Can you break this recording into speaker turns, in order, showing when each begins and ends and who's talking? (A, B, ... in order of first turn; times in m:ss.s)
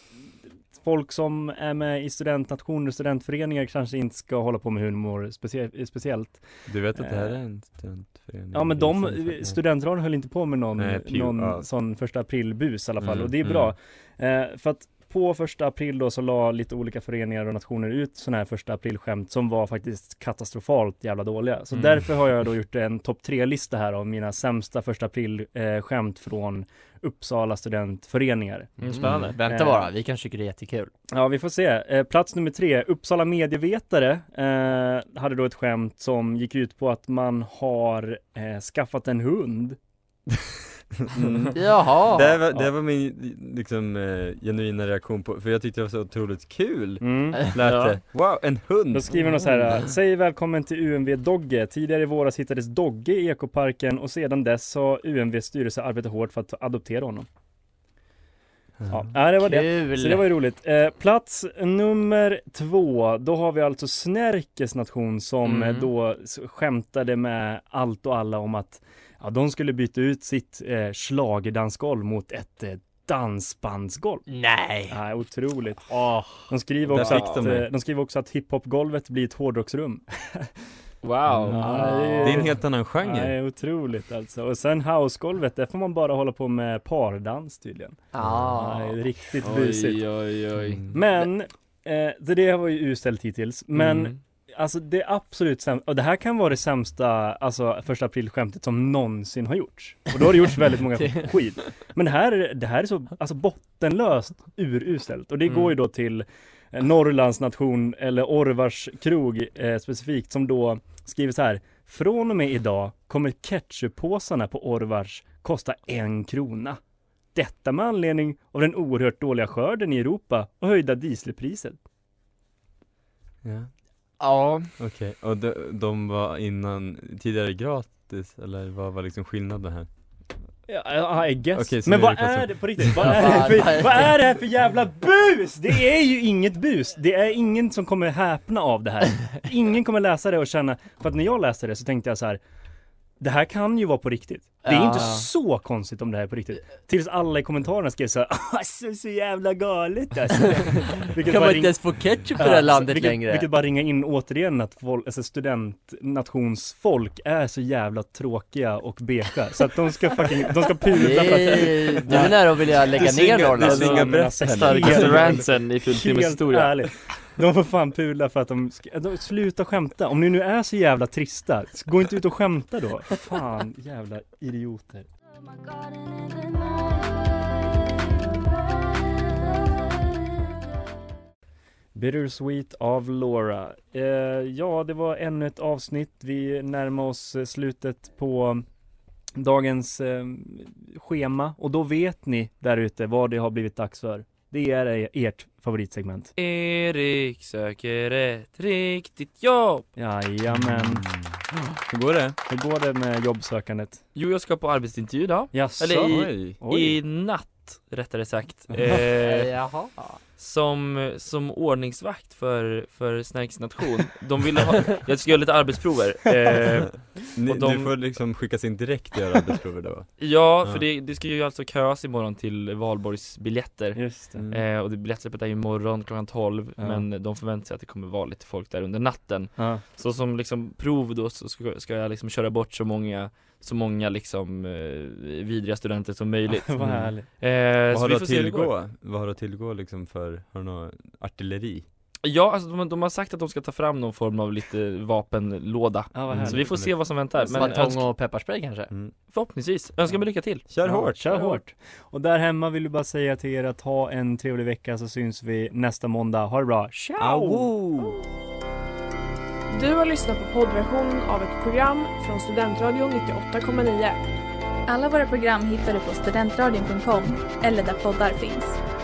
0:00.7-0:07.4 A
0:06.7-0:09.6 B
0:08.5-0:28.8 A
0:10.8-0:11.7 B
0:13.0-0:13.8 B
0:28.8-0:30.9 C
0:28.8-0:29.4 D
0:29.0-0:29.3 B
0:29.5-0:29.9 A
0:31.1-0:39.8 A
0:41.0-0:49.8 B
0:41.6-0:42.4 C
0:47.0-0:47.4 A
0:47.6-0:48.0 D
0:48.9-0:57.3 A
0:58.8-0:59.1 B
0:58.9-1:14.3 A
0:59.4-1:00.3 C
1:14.3-1:15.0 C
1:14.9-1:15.9 A
1:15.9-1:16.4 C
1:16.5-1:20.5 A
1:16.9-1:17.7 B
1:16.9-1:17.6 D
1:21.0-1:22.4 D
1:21.3-1:21.6 B
1:21.5-1:30.0 A
1:21.6-1:22.1 C
1:22.2-1:23.4 B
1:28.1-1:29.0 C
1:28.2-1:28.5 B
1:29.4-1:30.8 D
1:30.6-1:31.0 B
1:30.9-1:56.8 A
1:33.8-1:34.2 D
1:57.3-2:01.8 A
2:03.4-2:03.7 B
2:04.2-2:04.7 C
2:04.8-2:09.9 B
2:10.7-2:22.4 A
2:11.5-2:13.4 B
2:13.0-2:14.1 C
2:23.2-2:42.4 A
2:24.6-2:25.3 C
2:31.2-2:33.5 C
2:41.0-2:44.0 C
2:42.1-2:45.5 B
2:43.6-2:55.1 A
2:43.6-2:46.8 D
3:02.0-3:08.6 A
3:09.4-3:16.3 A
3:16.4-3:19.9 D
3:20.0-3:21.1 A
3:20.5-3:22.4 B
3:22.5-3:24.0 A
3:24.2-3:29.5 D
3:25.5-3:27.0 A
3:26.1-3:26.6 B
3:29.1-3:30.2 C
3:30.4-3:38.0 D
3:37.3-3:40.8 B
3:40.2-3:58.7 D
3:44.0-3:44.4 A
3:44.4-3:44.6 B
3:46.8-3:47.1 A
3:49.6-3:49.8 A
3:56.7-3:57.3 A
3:56.8-3:57.1 B
3:57.9-4:01.8 B
4:02.2-4:08.1 D
4:06.1-4:07.7 A
4:06.3-4:07.2 B
4:07.4-4:08.9 C
4:09.3-4:10.7 D
4:10.7-4:11.5 B
4:10.8-4:17.7 A
4:17.2-4:18.2 D
4:19.7-4:24.2 E
4:24.9-4:28.8 F